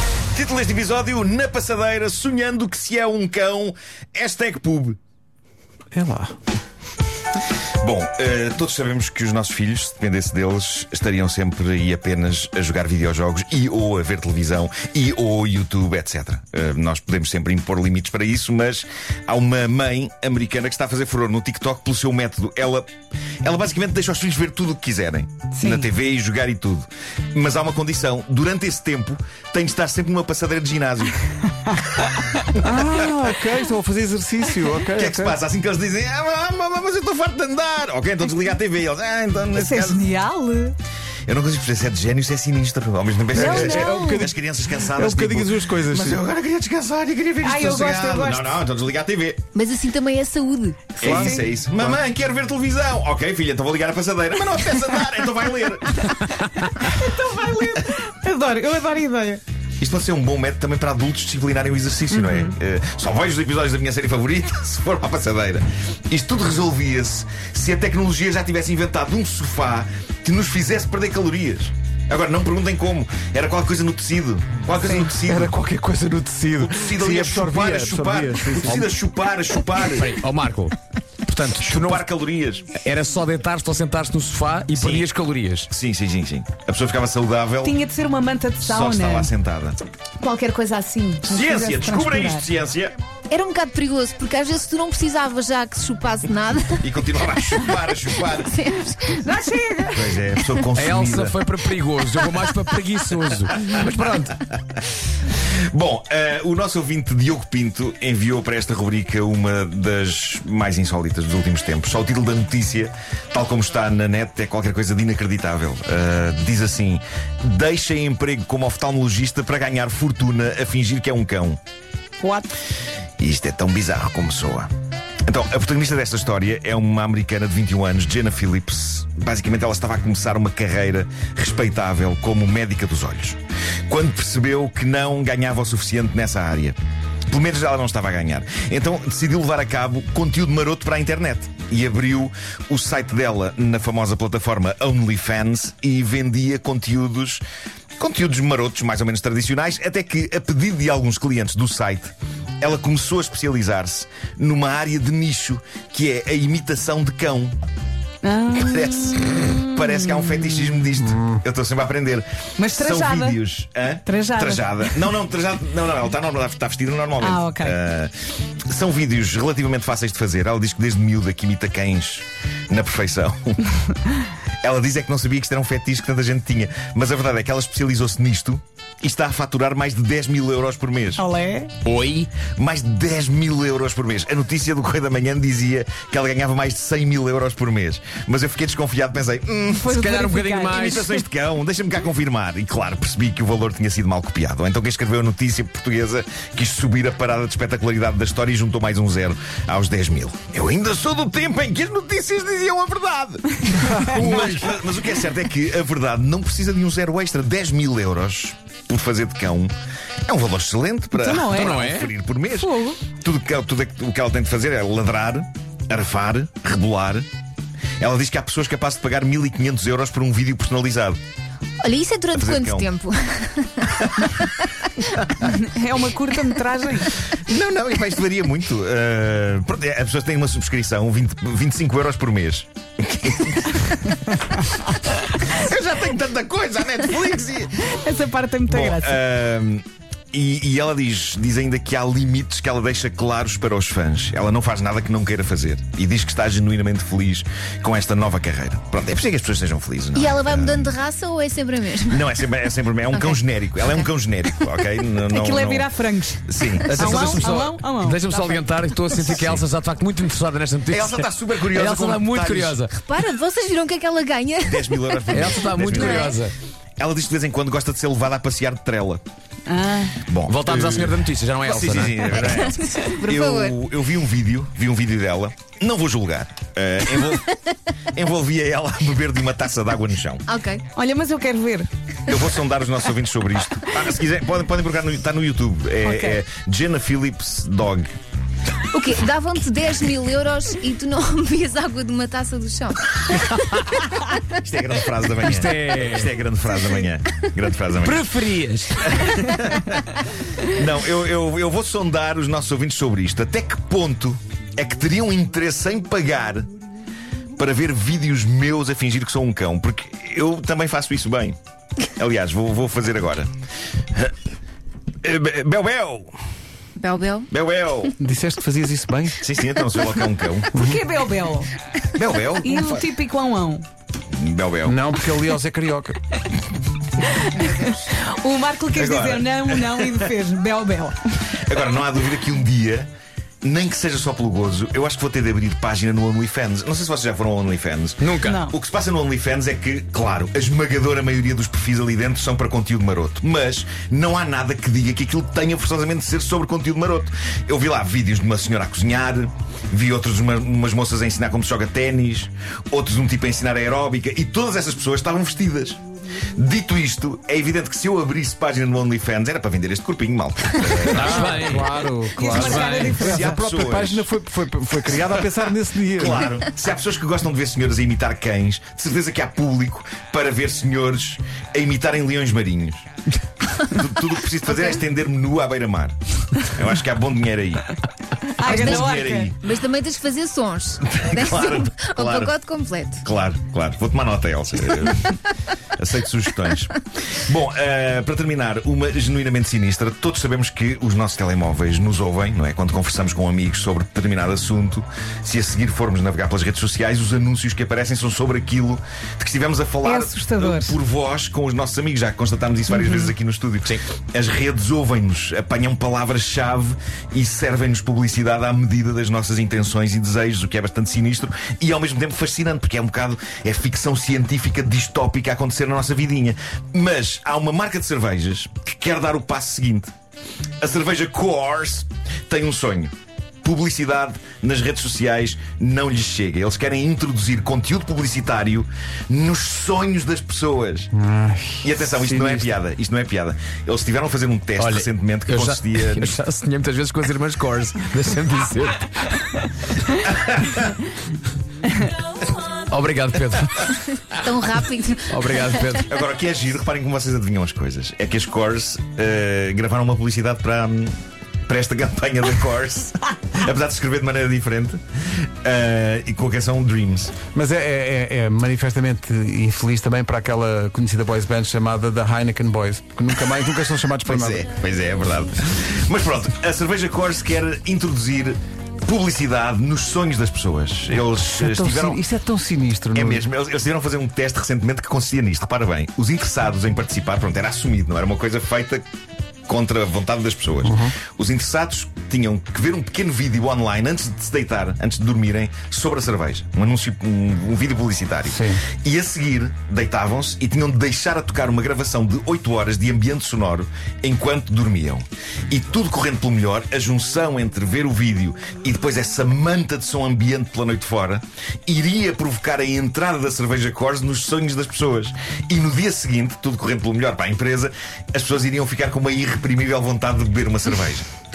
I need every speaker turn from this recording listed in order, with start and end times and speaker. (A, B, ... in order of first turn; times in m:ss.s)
0:00.3-0:05.0 A
0:05.9-0:06.3 B
0:07.8-0:22.9 A
0:23.4-0:31.2 A
0:32.4-0:33.1 A
0:32.6-0:35.4 B
0:34.8-0:40.1 A
0:39.6-0:40.8 C
0:41.3-0:49.5 A
0:43.3-0:46.2 B
0:43.4-0:44.2 C
0:47.4-0:48.6 C
0:49.6-0:50.9 D
0:51.0-0:56.2 A
0:51.0-0:51.4 C
0:51.0-0:52.0 B
0:56.9-0:59.4 C
0:59.8-1:15.6 A
1:02.1-1:02.5 C
1:15.2-1:18.9 B
1:16.6-1:20.1 A
1:19.9-1:20.8 E
1:21.3-1:22.0 E
1:21.6-1:22.8 A
1:22.8-1:25.7 E
1:24.8-1:25.1 A
1:25.7-1:27.8 A
1:27.6-1:29.3 C
1:28.6-1:29.8 A
1:30.2-1:32.5 C
1:31.2-1:33.0 A
1:33.3-1:36.9 D
1:36.8-1:38.6 A
1:38.4-1:39.2 D
1:39.2-1:40.1 C
1:39.9-1:41.4 A
1:40.7-1:44.4 E
1:45.7-2:01.6 A
2:02.2-2:02.5 C
2:03.2-2:04.7 A
2:05.3-2:16.8 A
2:17.3-2:27.4 A
2:28.0-2:37.6 A
2:38.2-2:40.7 C
2:38.6-2:48.1 A
2:41.0-2:41.4 B
2:42.6-2:43.4 C
2:44.0-2:44.8 C
2:47.2-2:47.8 C
2:48.7-2:53.6 A
2:54.6-3:01.2 A
3:01.2-3:01.7 C
3:01.8-3:02.4 E
3:02.4-3:10.0 A
3:09.7-3:11.2 C
3:10.0-3:11.1 E
3:10.7-3:29.7 A
3:30.3-3:37.3 A
3:31.2-3:31.8 C
3:31.5-3:32.1 E
3:32.5-3:33.0 C
3:38.0-3:41.2 A
3:41.8-3:44.7 D
3:42.3-3:42.9 A
3:45.4-3:47.2 C
3:47.3-3:57.7 A
3:57.8-3:59.2 C
3:58.7-4:11.0 A
4:10.2-4:12.2 D
4:12.1-4:15.9 A
4:13.1-4:14.1 D
4:15.3-4:16.4 C
4:16.5-4:17.2 A
4:16.9-4:23.0 E
4:16.9-4:17.6 D
4:17.0-4:18.2 C
4:18.3-4:19.2 D
4:19.2-4:19.6 A
4:20.9-4:22.8 A
4:22.9-4:26.4 D
4:24.6-4:26.5 A
4:25.3-4:26.5 E
4:27.0-4:29.2 A
4:29.7-4:30.2 C
4:30.2-4:40.5 A
4:30.5-4:32.6 E
4:32.4-4:33.8 D
4:40.5-4:40.9 D
4:41.0-4:41.9 C
4:42.3-4:48.1 A
4:46.0-4:46.4 C
4:48.9-4:53.6 D
4:53.6-4:54.0 E
4:54.5-4:58.4 A
4:55.4-4:56.3 E
4:58.0-4:59.1 E
4:59.1-5:00.0 A
5:00.7-5:06.7 A
5:07.6-5:11.6 A
5:12.1-5:13.5 A
5:15.2-5:16.3 A
5:17.0-5:17.5 D
5:17.5-5:18.1 A
5:18.2-5:19.4 B
5:19.4-5:20.8 A
5:20.7-5:21.7 C
5:22.1-5:23.0 A
5:22.6-5:23.9 C
5:24.3-5:25.0 A
5:24.9-5:26.2 B
5:27.2-5:31.2 C
5:28.9-5:30.3 A
5:31.6-5:33.1 A
5:33.6-5:56.0 A
5:38.2-5:38.6 E
5:38.4-5:38.8 C
5:56.6-6:01.8 A
6:01.0-6:06.5 B
6:01.1-6:03.2 E
6:02.4-6:03.6 C
6:03.2-6:04.3 A
6:06.1-6:13.1 A
6:13.7-6:17.9 A
6:18.6-6:19.5 C
6:18.6-6:19.7 A
6:18.6-6:23.2 D
6:21.1-6:22.5 A
6:23.2-6:25.4 A
6:26.0-7:00.1 A
6:40.0-6:41.0 C
6:43.0-6:43.3 C
7:00.8-7:11.1 A
7:11.1-7:12.7 B
7:11.8-7:16.4 A
7:14.8-7:19.4 E
7:20.3-7:20.9 A
7:22.9-7:24.0 E
7:24.0-7:25.6 D
7:25.3-7:26.1 E
7:26.0-7:31.2 A
7:31.7-7:35.0 A
7:35.6-7:37.4 A
7:37.5-7:44.6 B
7:44.2-7:52.2 A
7:51.5-7:53.4 B
7:53.1-7:59.0 A
7:59.7-8:31.3 A
8:00.8-8:01.2 B
8:08.5-8:08.8 B